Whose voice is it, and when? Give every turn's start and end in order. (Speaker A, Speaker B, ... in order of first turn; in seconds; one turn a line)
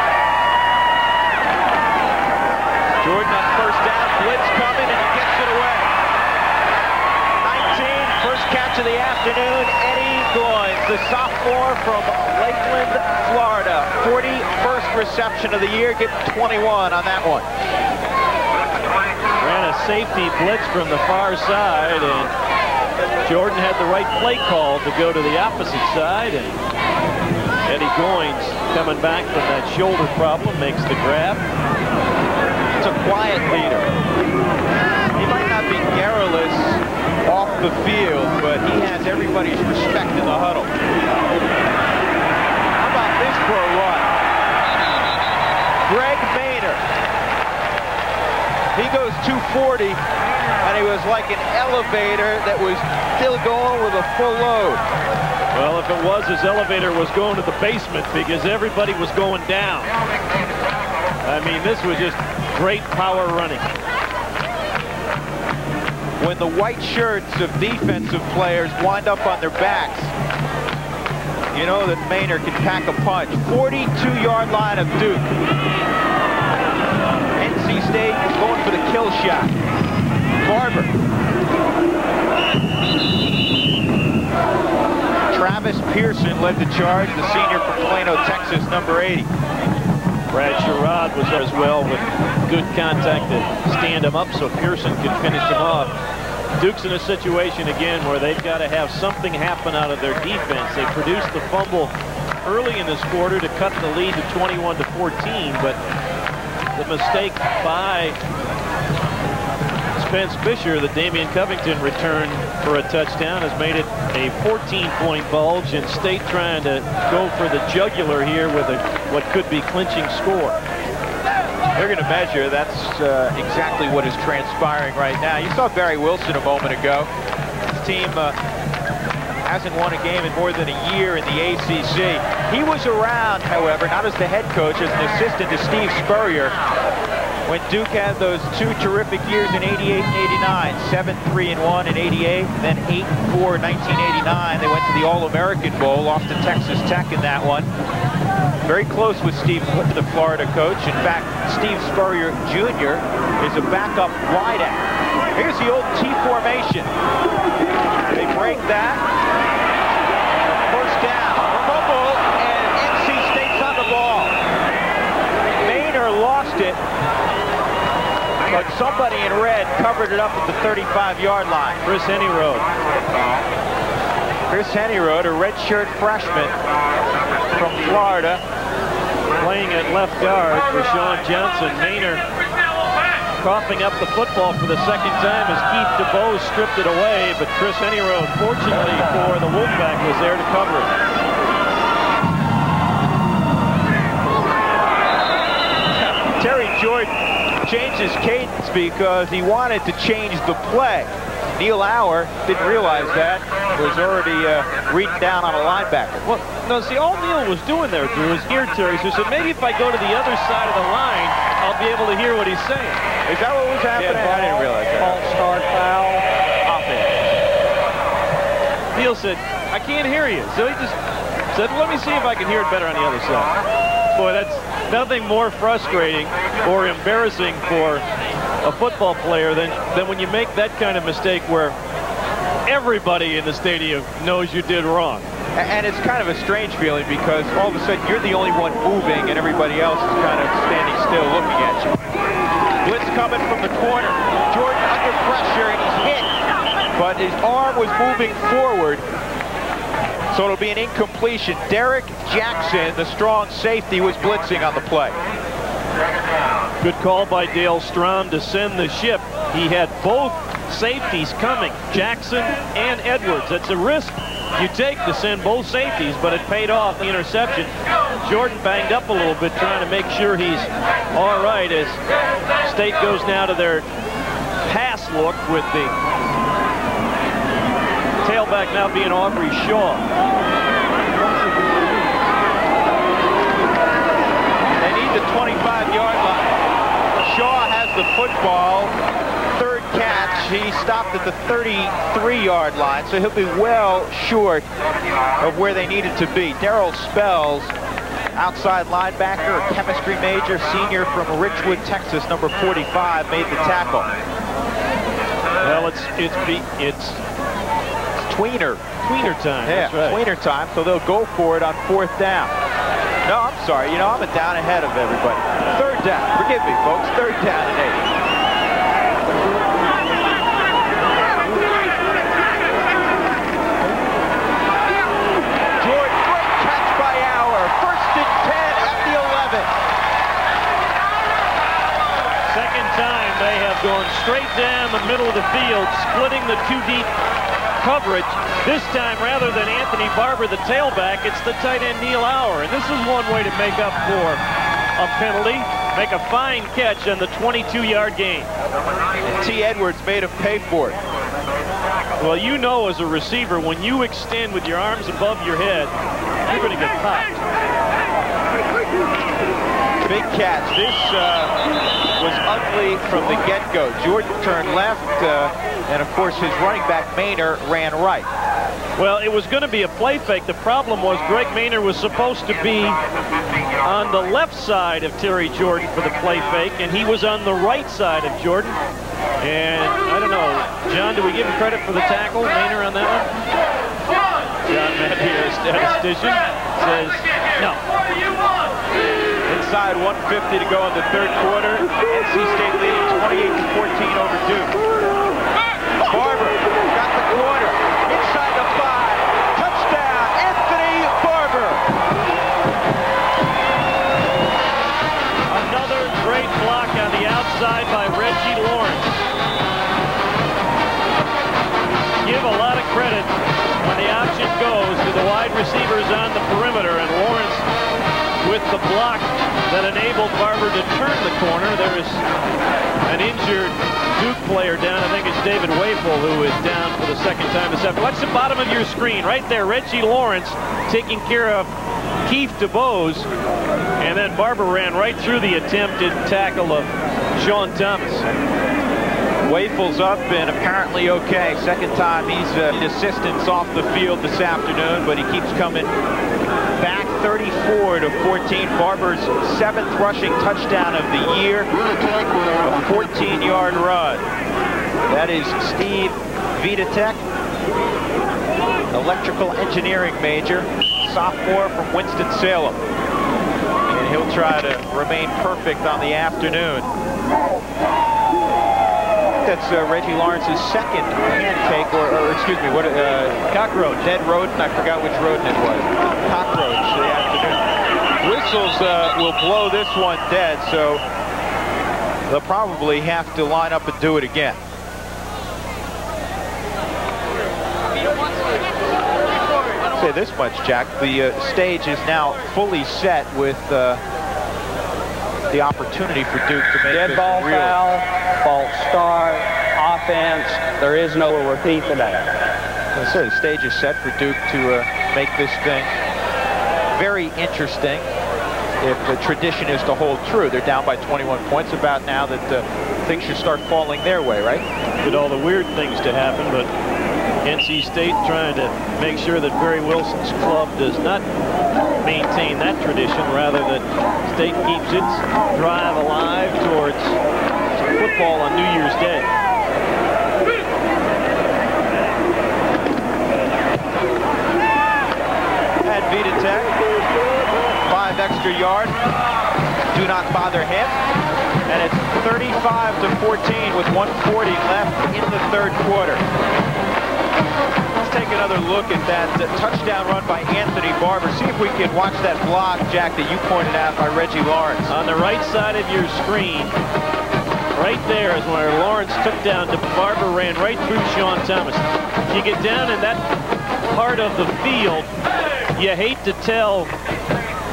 Speaker A: 3.0-5.9
Speaker A: 7.4-17.5
Speaker B: 19.4-22.3
Speaker B: 23.2-26.6
Speaker B: 27.6-31.4
Speaker A: 32.8-34.0
Speaker A: 35.1-40.7
Speaker A: 42.8-44.1
Speaker A: 45.8-46.8
Speaker A: 48.7-50.0
Speaker A: 50.6-54.8
Speaker B: 55.5-59.9
Speaker B: 61.2-63.7
Speaker A: 66.2-70.1
Speaker A: 71.5-75.3
Speaker A: 77.4-79.5
Speaker A: 80.4-80.9
Speaker A: 85.3-89.3
Speaker B: 90.3-96.0
Speaker B: 96.6-105.8
Speaker B: 106.7-108.2
Speaker B: 110.0-120.6
Speaker A: 121.7-127.1
Speaker A: 127.7-128.4
Speaker A: 129.4-136.6
Speaker A: 137.4-147.7
Speaker A: 148.6-156.9
Speaker A: 158.1-159.0
Speaker A: 160.4-164.3
Speaker A: 165.6-166.8
Speaker A: 168.5-171.8
Speaker B: 171.8-172.7
Speaker A: 174.5-176.6
Speaker A: 177.5-178.4
Speaker B: 179.4-182.2
Speaker B: 183.4-190.9
Speaker A: 195.9-206.3
Speaker B: 206.2-213.0
Speaker A: 213.2-215.2
Speaker B: 213.9-217.1
Speaker A: 216.7-217.1
Speaker B: 218.9-221.0
Speaker B: 221.5-223.5
Speaker B: 224.1-228.0
Speaker B: 228.6-231.8
Speaker B: 232.7-235.3
Speaker A: 235.5-242.1
Speaker A: 242.8-246.3
Speaker A: 246.9-249.1
Speaker A: 250.3-255.2
Speaker B: 256.8-272.0
Speaker B: 272.6-273.9
Speaker B: 274.6-275.9
Speaker B: 278.2-280.1
Speaker A: 284.8-286.5
Speaker A: 287.2-288.9
Speaker A: 289.5-294.7
Speaker A: 295.4-297.7
Speaker A: 298.3-304.1
Speaker B: 305.6-307.2
Speaker A: 308.1-308.9
Speaker B: 309.0-310.2
Speaker A: 309.6-312.5
Speaker A: 313.2-318.1
Speaker A: 325.8-329.7
Speaker B: 332.5-337.1
Speaker B: 337.8-344.4
Speaker B: 345.0-348.5
Speaker A: 349.2-351.0
Speaker B: 352.2-355.9
Speaker B: 356.5-357.4
Speaker A: 360.0-361.5
Speaker A: 362.2-368.3
Speaker B: 369.0-373.0
Speaker B: 373.8-378.8
Speaker B: 379.4-383.3
Speaker B: 384.7-387.8
Speaker A: 389.4-394.8
Speaker A: 396.0-401.9
Speaker B: 405.5-409.2
Speaker B: 412.2-417.6
Speaker B: 418.4-422.2
Speaker B: 423.1-431.7
Speaker B: 432.2-433.3
Speaker B: 434.0-438.3
Speaker A: 439.4-445.9
Speaker A: 446.8-451.7
Speaker A: 452.6-454.2
Speaker A: 455.1-457.2
Speaker A: 458.9-462.8
Speaker A: 463.9-466.9
Speaker A: 469.4-477.7
Speaker A: 478.2-481.0
Speaker A: 482.3-484.6
Speaker A: 489.9-494.0
Speaker A: 495.5-497.8
Speaker C: 496.9-502.3
Speaker A: 502.9-506.0
Speaker A: 506.9-508.1
Speaker A: 508.8-514.7
Speaker B: 515.0-516.7
Speaker B: 517.4-521.2
Speaker B: 522.0-527.2
Speaker B: 527.8-529.3
Speaker A: 535.8-536.8
Speaker A: 537.8-539.0
Speaker A: 539.9-541.0
Speaker A: 541.7-546.2
Speaker A: 548.0-554.9
Speaker B: 554.9-556.8
Speaker B: 557.7-563.2
Speaker B: 563.9-565.1
Speaker B: 565.7-566.9